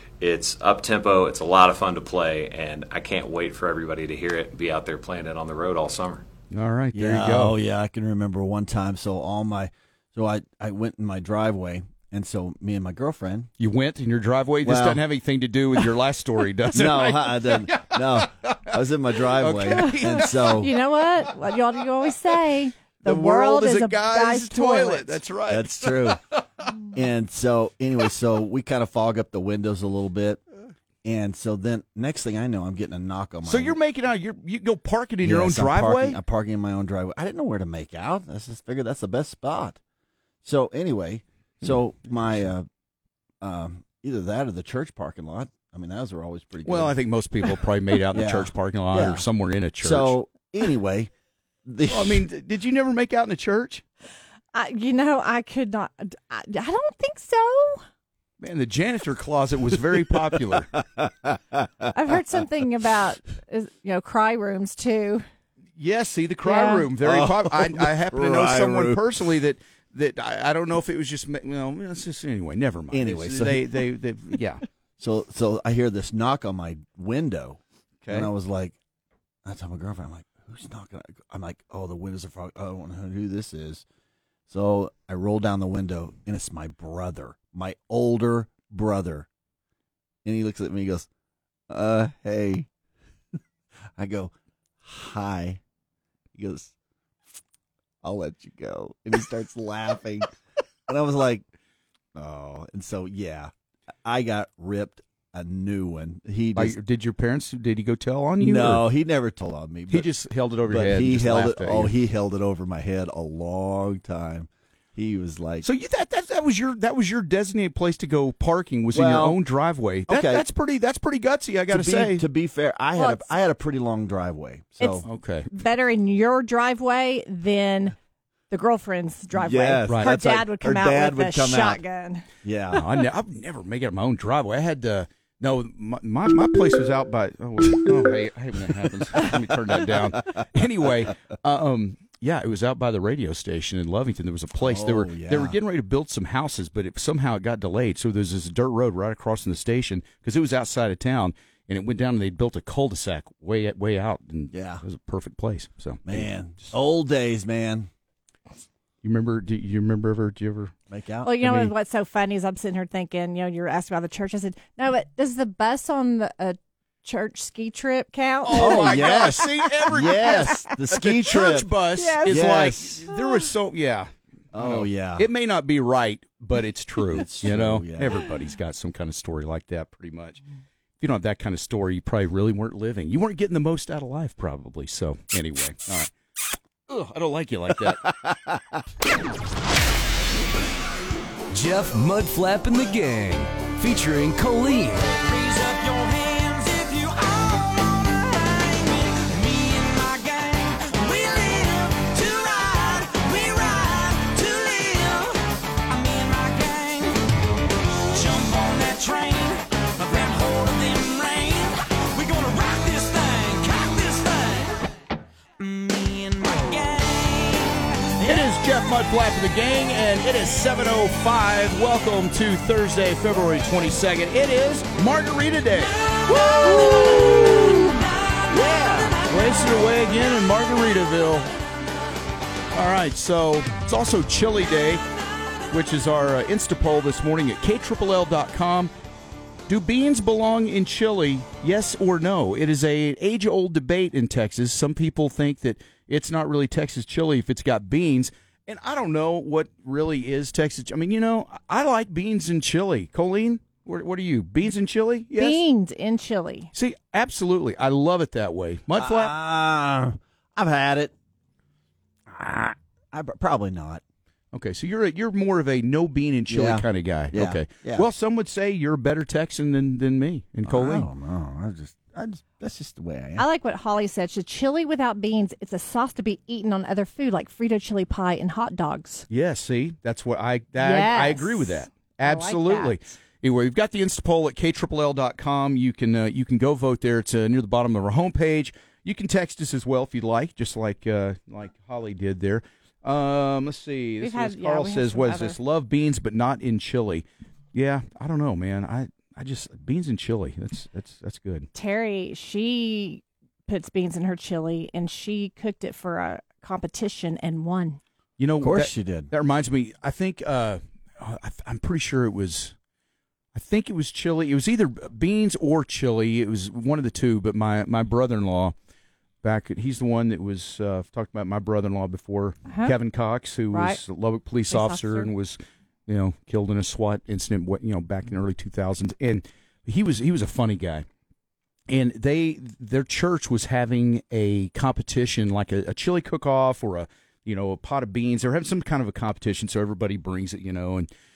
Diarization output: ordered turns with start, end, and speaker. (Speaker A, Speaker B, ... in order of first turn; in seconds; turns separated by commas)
Speaker A: 0.2-6.2, Speaker B: 6.5-7.6, Speaker C: 6.9-13.5, Speaker B: 13.6-20.7, Speaker C: 14.6-15.0, Speaker C: 16.7-20.7, Speaker D: 20.0-25.2, Speaker B: 23.0-26.2, Speaker C: 25.5-26.2, Speaker C: 26.9-30.4, Speaker C: 31.0-33.8, Speaker B: 33.4-36.2, Speaker C: 35.2-39.8, Speaker C: 40.4-42.7, Speaker C: 43.4-47.0, Speaker B: 46.6-50.2, Speaker C: 48.1-49.2, Speaker C: 49.8-51.1, Speaker C: 51.6-52.2, Speaker B: 51.9-53.8, Speaker D: 54.5-57.8, Speaker B: 58.4-60.7, Speaker C: 60.3-61.9, Speaker D: 61.9-65.2, Speaker B: 65.8-74.6, Speaker D: 66.4-66.9, Speaker C: 67.0-69.0, Speaker C: 72.9-73.8, Speaker C: 75.0-78.8, Speaker B: 78.0-78.3, Speaker C: 79.4-83.8, Speaker C: 84.5-89.3, Speaker C: 90.2-91.1, Speaker C: 91.7-92.7, Speaker C: 94.0-95.6, Speaker C: 96.3-96.7, Speaker C: 98.0-100.3, Speaker C: 100.9-101.4, Speaker C: 102.1-103.5, Speaker C: 104.0-106.8, Speaker B: 106.5-108.8, Speaker C: 108.4-110.1, Speaker B: 109.9-111.9, Speaker C: 110.7-115.7, Speaker B: 115.6-122.2, Speaker C: 118.9-119.4, Speaker C: 120.1-120.4, Speaker C: 121.7-125.0, Speaker D: 122.9-123.3, Speaker D: 124.8-128.0, Speaker B: 125.0-125.5, Speaker D: 128.5-132.2, Speaker C: 129.3-131.8, Speaker B: 129.9-130.2, Speaker C: 132.4-132.8, Speaker B: 132.7-156.7, Speaker C: 144.6-145.6, Speaker C: 154.5-154.8, Speaker C: 156.1-157.9, Speaker B: 159.0-160.7, Speaker C: 160.9-161.6, Speaker D: 161.2-170.8, Speaker B: 161.4-161.7, Speaker B: 168.4-180.4, Speaker C: 168.6-171.7, Speaker D: 171.4-172.5, Speaker C: 172.2-173.0, Speaker D: 173.1-173.5, Speaker C: 174.5-175.3, Speaker C: 177.1-178.2, Speaker B: 181.0-186.1, Speaker B: 186.9-188.1, Speaker C: 187.9-188.8, Speaker E: 191.5-195.2, Speaker F: 195.2-207.2, Speaker F: 208.1-214.8, Speaker F: 215.6-218.4, Speaker B: 218.2-227.9, Speaker F: 226.0-227.3, Speaker F: 227.9-229.7, Speaker B: 228.5-231.5, Speaker B: 232.7-235.0, Speaker B: 235.7-238.9, Speaker B: 239.7-255.6, Speaker D: 255.3-256.7, Speaker B: 256.7-259.4, Speaker C: 258.9-261.1, Speaker C: 262.3-264.0, Speaker B: 264.5-271.1, Speaker C: 266.5-268.1, Speaker C: 270.6-273.4, Speaker D: 273.4-279.2, Speaker B: 279.3-301.7, Speaker D: 280.8-283.0, Speaker D: 294.2-295.6, Speaker D: 301.7-308.0, Speaker B: 308.4-312.7, Speaker C: 308.6-309.3, Speaker B: 313.5-318.7, Speaker B: 319.4-331.1, Speaker D: 322.7-322.9, Speaker D: 323.7-324.0, Speaker D: 324.7-325.3, Speaker B: 331.9-341.1